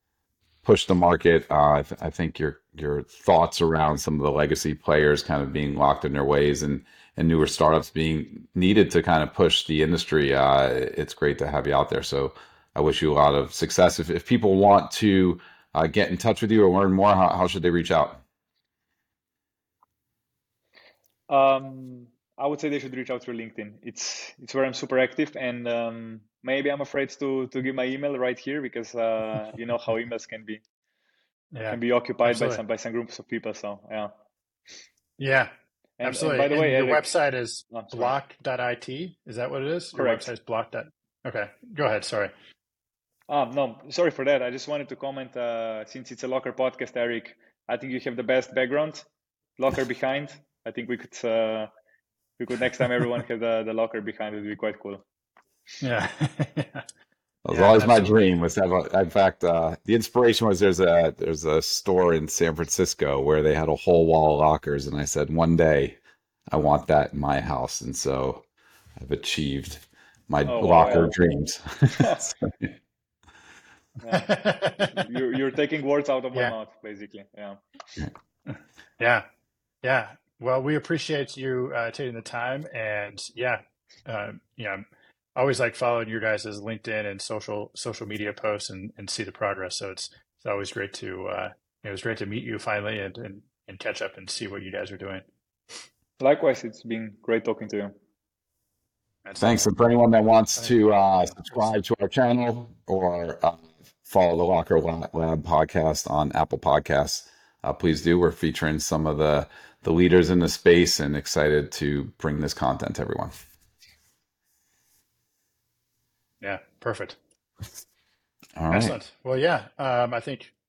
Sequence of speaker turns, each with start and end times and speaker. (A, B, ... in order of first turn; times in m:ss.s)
0:00.6-0:18.2 A
0:21.3-0:30.6 B
0:31.5-0:32.6 C
0:31.7-0:34.1 B
0:35.2-0:35.5 C
0:36.0-0:37.1 B
0:36.0-0:42.3 C
0:37.7-0:38.2 B
0:39.9-0:40.3 B
0:43.3-0:49.1 B
0:49.6-0:51.7 B
0:52.4-0:55.0 B
0:55.8-0:56.8 C
0:57.4-1:06.0 A
0:57.5-0:58.1 C
1:06.5-1:08.4 A
1:09.0-1:12.7 A
1:10.5-1:11.1 B
1:11.9-1:12.2 B
1:14.0-1:17.6 B
1:14.1-1:15.0 C
1:19.0-1:19.2 C
1:19.8-1:24.8 C
1:25.4-1:35.2 C
1:36.2-1:37.9 B
1:39.2-1:39.6 C
1:39.4-1:53.3 A
1:41.4-1:41.7 C
1:56.4-1:57.2 C
1:58.6-1:59.0 A
1:58.7-2:00.5 C